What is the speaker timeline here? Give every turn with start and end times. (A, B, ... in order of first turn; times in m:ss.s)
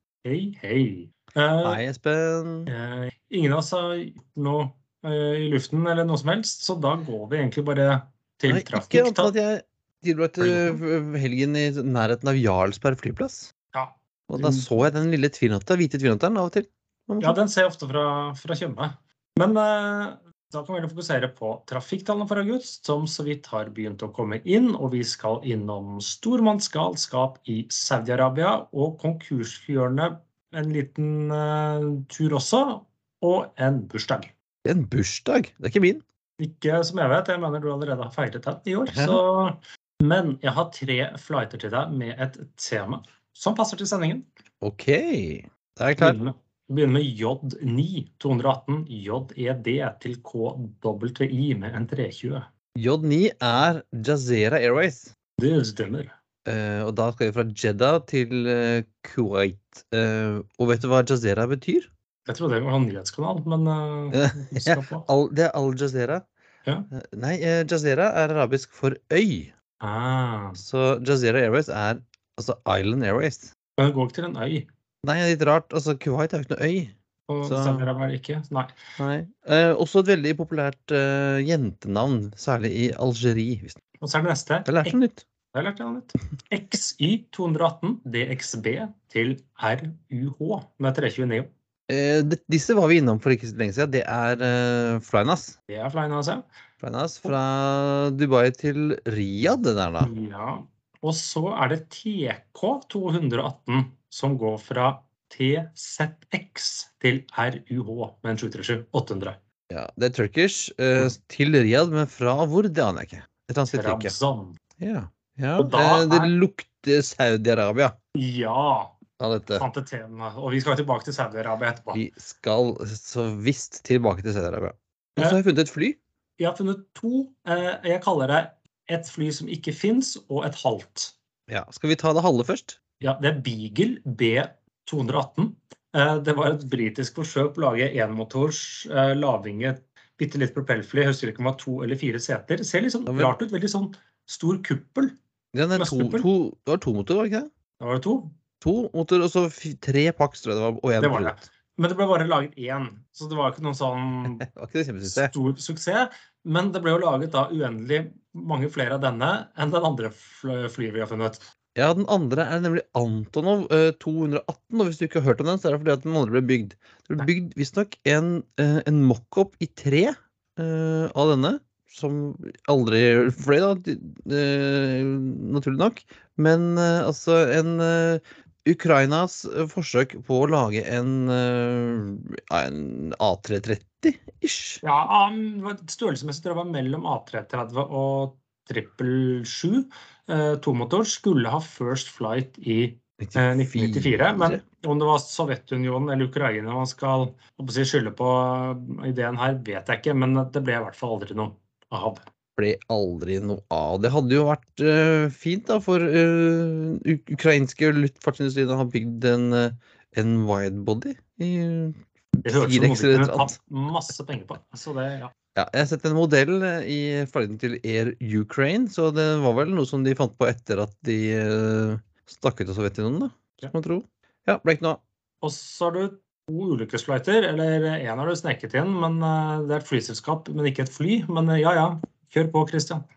0:00.2-0:01.8 A
0:01.6-0:02.7 B
0:02.7-0:09.3 A
0:08.5-0:13.5 B
0:10.4-0:10.8 A
0:13.7-0:14.7 A
0:14.3-0:17.4 B
0:17.2-0:34.3 A
0:34.6-0:36.0 B
0:36.4-0:44.3 A
0:38.9-0:39.2 B
0:44.6-0:46.2 B
0:46.0-0:52.5 A
0:52.8-0:55.1 B
0:55.4-0:56.1 A
0:56.4-1:01.9 B
1:02.3-1:05.1 A
1:04.1-1:06.3 B
1:06.9-1:09.5 B
1:09.8-1:10.6 A
1:10.6-1:13.5 B
1:13.8-1:14.7 A
1:15.0-1:17.9 B
1:17.3-1:18.8 A
1:19.0-1:23.8 B
1:24.0-1:25.0 A
1:24.7-1:25.2 B
1:25.5-1:31.5 A
1:31.9-1:35.6 B
1:35.7-1:36.4 A
1:36.8-1:40.1 B
1:40.0-1:49.4 A
1:49.7-1:54.1 B
1:53.7-1:54.6 A
1:54.8-1:58.0 B
1:55.6-1:56.3 A
1:58.2-1:59.0 A
1:59.2-1:59.7 B
1:59.6-2:02.0 A
2:01.9-2:06.0 B
2:06.4-2:11.2 A
2:11.5-2:12.8 B
2:13.0-2:25.2 A
2:23.1-2:23.4 B
2:25.5-2:27.5 B
2:25.7-2:26.3 A
2:27.8-2:28.3 A
2:28.6-2:31.4 B
2:31.0-2:34.5 A
2:34.4-2:35.3 B
2:35.0-2:41.4 A
2:41.8-3:04.8 B
3:04.8-3:22.2 A
3:13.2-3:14.6 B
3:22.6-3:33.6 B
3:32.4-3:35.3 A
3:35.6-3:45.0 B
3:45.4-3:53.1 A